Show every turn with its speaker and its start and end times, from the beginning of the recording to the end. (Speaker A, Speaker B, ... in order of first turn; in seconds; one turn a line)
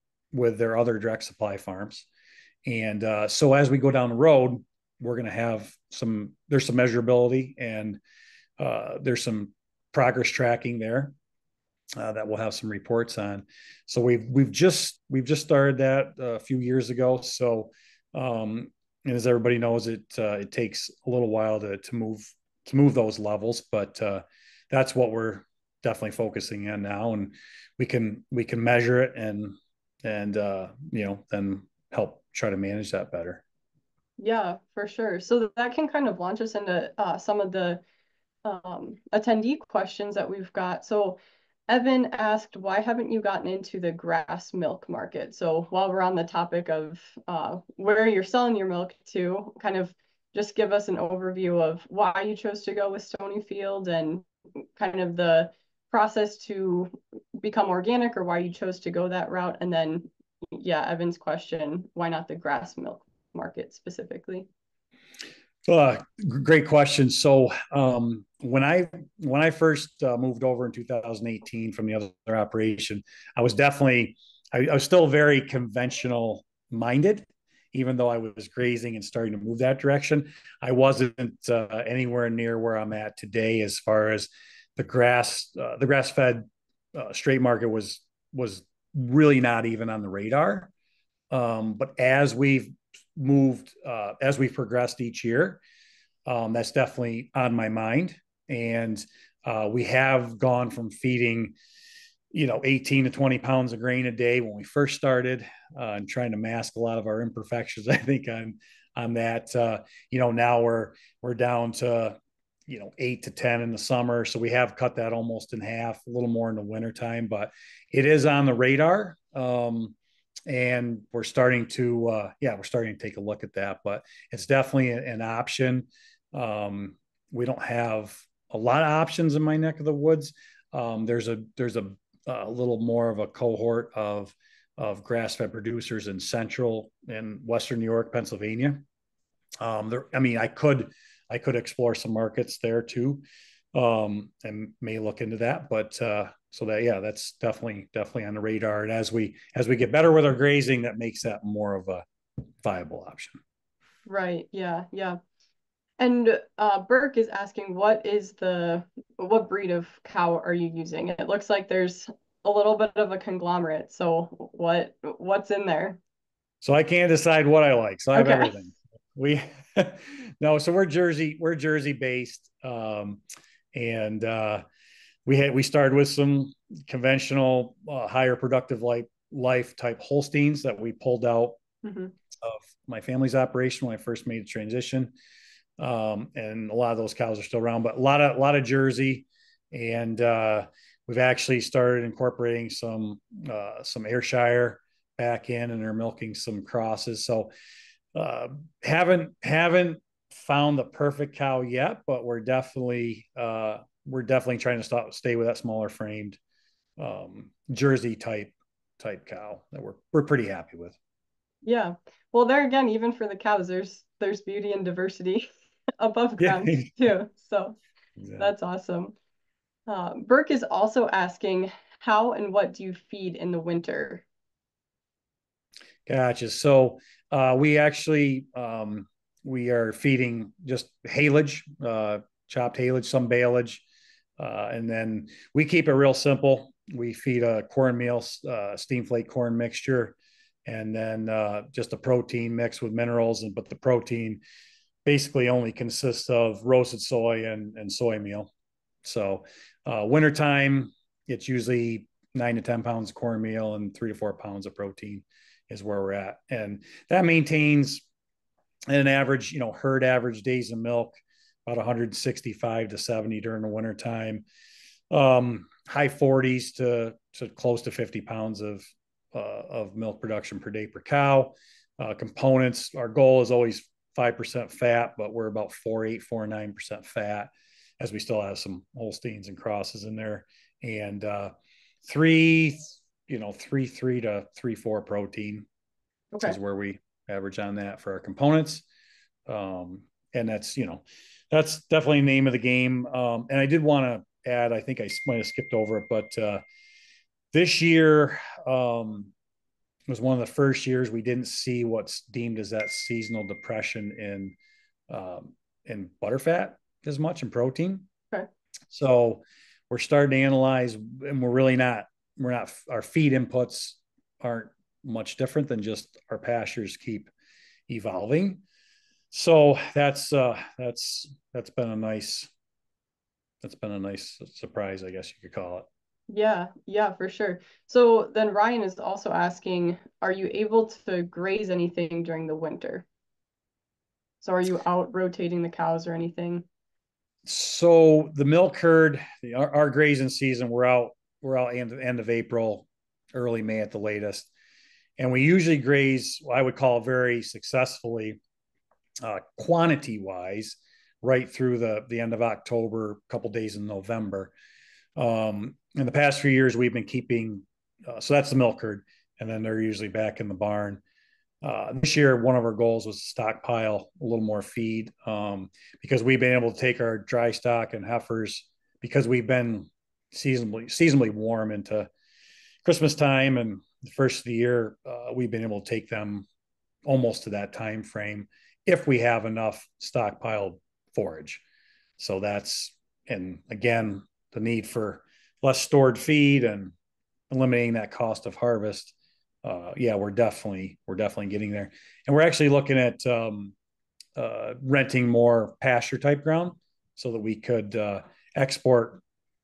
Speaker A: 0.3-2.1
Speaker A: 2.6-8.0
Speaker A: 8.6-11.1
Speaker A: 12.0-33.4
Speaker B: 34.2-37.8
Speaker B: 38.4-54.2
Speaker B: 54.8-64.5
Speaker A: 65.7-90.7
Speaker A: 91.3-95.6
Speaker A: 96.3-101.5
Speaker A: 102.3-120.0
Speaker A: 120.5-138.8
Speaker A: 139.6-152.0
Speaker A: 152.6-153.4
Speaker B: 154.1-155.2
Speaker B: 156.0-166.0
Speaker A: 166.6-173.2
Speaker B: 168.2-168.5
Speaker A: 173.7-174.6
Speaker A: 175.3-181.6
Speaker B: 181.8-182.1
Speaker A: 182.4-185.1
Speaker A: 185.8-197.5
Speaker A: 198.1-206.4
Speaker A: 207.0-211.0
Speaker B: 211.6-215.5
Speaker B: 216.0-217.8
Speaker A: 216.4-216.9
Speaker A: 218.2-218.5
Speaker B: 218.4-219.2
Speaker B: 219.9-224.2
Speaker A: 226.1-233.8
Speaker A: 234.4-244.4
Speaker A: 245.1-248.5
Speaker A: 249.0-258.1
Speaker A: 258.9-264.5
Speaker A: 265.1-281.5
Speaker A: 282.1-285.7
Speaker A: 286.4-288.9
Speaker A: 289.5-296.6
Speaker A: 297.5-299.3
Speaker A: 300.1-304.6
Speaker A: 305.1-308.1
Speaker A: 308.9-317.3
Speaker A: 317.9-318.6
Speaker A: 319.3-322.5
Speaker A: 323.6-325.9
Speaker B: 326.3-333.1
Speaker B: 334.4-336.7
Speaker A: 337.4-344.5
Speaker A: 345.2-348.4
Speaker A: 349.2-354.5
Speaker A: 355.2-361.0
Speaker A: 361.6-372.1
Speaker A: 372.8-376.5
Speaker A: 377.1-381.6
Speaker A: 382.2-386.9
Speaker A: 387.5-393.8
Speaker A: 394.4-399.2